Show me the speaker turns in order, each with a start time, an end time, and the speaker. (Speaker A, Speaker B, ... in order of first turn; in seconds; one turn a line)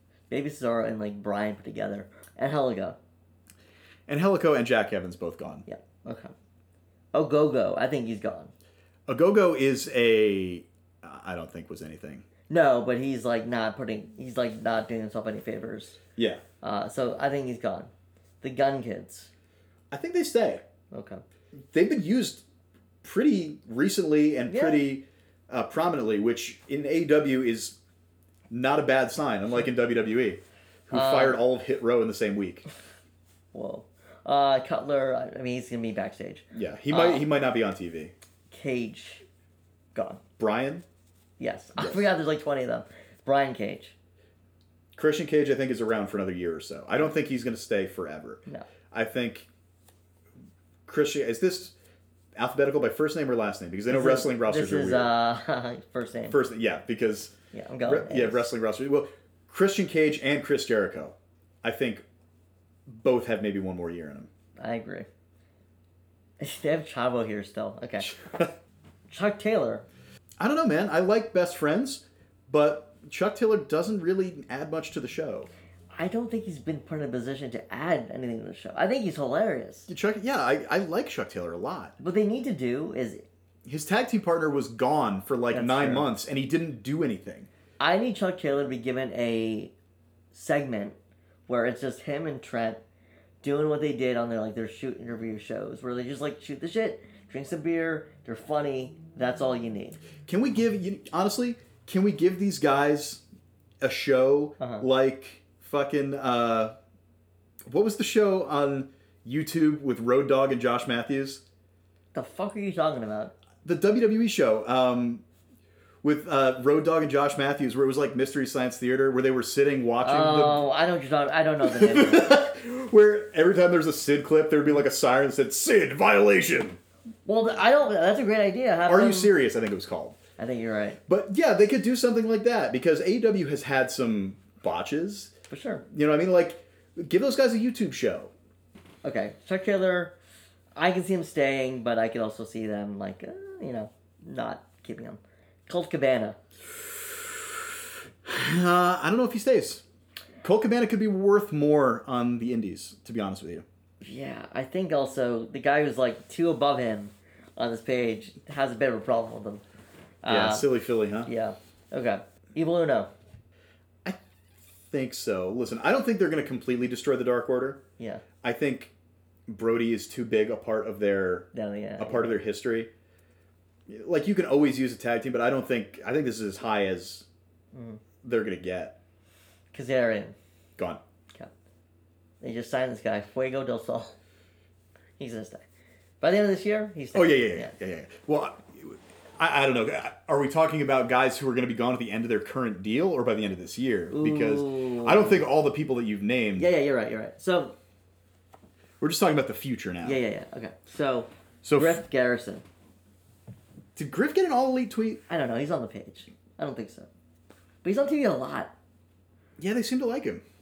Speaker A: 0.3-3.0
Speaker B: 4.1-5.7
Speaker A: 5.7-6.3
Speaker A: 7.1-8.5
Speaker B: 9.1-12.2
Speaker A: 12.5-16.0
Speaker B: 16.2-16.4
Speaker A: 16.6-17.9
Speaker A: 18.4-19.3
Speaker B: 19.9-20.6
Speaker A: 20.9-21.2
Speaker B: 21.7-22.4
Speaker B: 23.0-27.8
Speaker A: 24.5-24.8
Speaker B: 28.5-32.6
Speaker A: 30.9-31.4
Speaker A: 33.5-37.2
Speaker B: 36.5-38.1
Speaker A: 38.5-39.2
Speaker A: 39.9-40.2
Speaker B: 40.4-40.8
Speaker A: 41.4-43.9
Speaker B: 41.8-42.0
Speaker B: 45.0-49.5
Speaker B: 50.9-51.7
Speaker B: 52.3-55.1
Speaker A: 53.9-56.4
Speaker B: 56.3-62.0
Speaker A: 57.5-58.5
Speaker B: 62.9-64.3
Speaker A: 64.6-65.1
Speaker A: 66.4-68.1
Speaker B: 68.0-68.5
Speaker A: 69.1-69.8
Speaker B: 70.4-75.5
Speaker A: 75.9-79.9
Speaker B: 79.9-81.9
Speaker A: 82.0-83.2
Speaker B: 83.6-87.5
Speaker A: 85.5-86.1
Speaker A: 87.8-89.7
Speaker A: 90.3-91.0
Speaker A: 91.5-92.8
Speaker A: 93.4-100.0
Speaker B: 100.2-103.2
Speaker B: 103.8-106.8
Speaker A: 104.6-104.8
Speaker B: 107.7-111.4
Speaker A: 112.1-113.3
Speaker B: 113.6-115.2
Speaker B: 116.0-120.6
Speaker A: 120.0-122.4
Speaker B: 121.6-126.8
Speaker A: 127.2-129.3
Speaker B: 128.9-130.2
Speaker A: 130.4-131.0
Speaker B: 131.1-135.3
Speaker A: 135.5-135.8
Speaker B: 135.9-138.3
Speaker A: 139.0-140.1
Speaker A: 140.7-146.4
Speaker B: 147.1-147.5
Speaker B: 148.2-149.8
Speaker B: 150.4-153.6
Speaker A: 154.0-159.6
Speaker A: 160.2-160.7
Speaker B: 160.2-161.3
Speaker A: 161.2-163.1
Speaker B: 164.0-167.8
Speaker A: 168.0-168.2
Speaker B: 168.4-168.9
Speaker B: 169.5-172.9
Speaker A: 171.5-172.4
Speaker B: 173.9-177.2
Speaker A: 177.7-178.0
Speaker B: 178.2-179.0
Speaker A: 179.7-180.3
Speaker A: 182.4-184.2
Speaker A: 185.2-185.6
Speaker A: 186.2-187.7
Speaker B: 187.1-196.7
Speaker A: 194.1-195.4
Speaker A: 196.6-197.8
Speaker B: 199.0-200.2
Speaker A: 200.0-202.6
Speaker B: 201.6-202.0
Speaker B: 203.9-205.2
Speaker A: 205.3-207.1
Speaker A: 207.8-208.7
Speaker B: 209.6-210.4